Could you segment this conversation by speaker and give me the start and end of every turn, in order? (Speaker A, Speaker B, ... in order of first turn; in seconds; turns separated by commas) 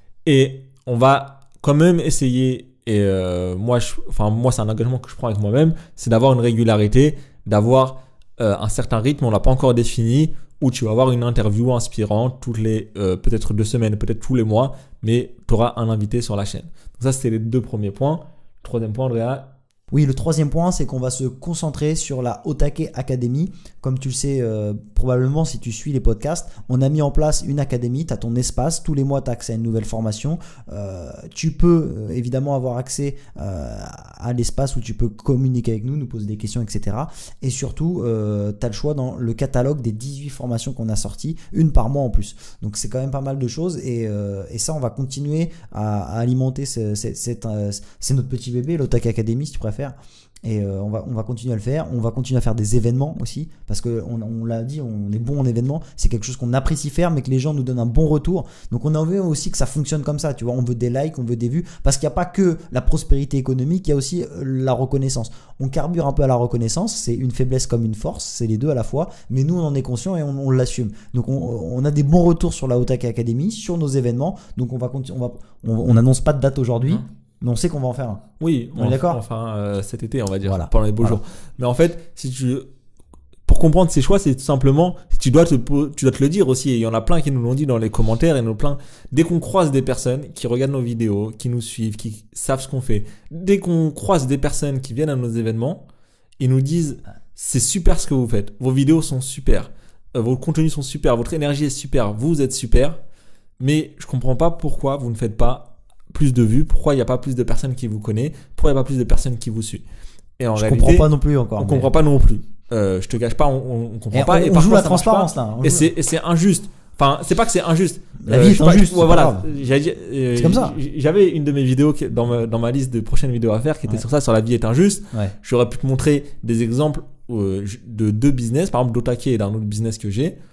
Speaker A: 0.2-19.5, Speaker B: 19.9-78.2, Speaker A: 78.4-82.7, Speaker B: 78.7-79.2, Speaker B: 80.4-81.2, Speaker A: 83.5-95.8, Speaker A: 96.4-103.0, Speaker A: 103.6-109.8, Speaker A: 110.4-130.4, Speaker B: 110.5-111.9, Speaker B: 114.1-115.9, Speaker B: 118.2-119.5, Speaker B: 120.3-120.8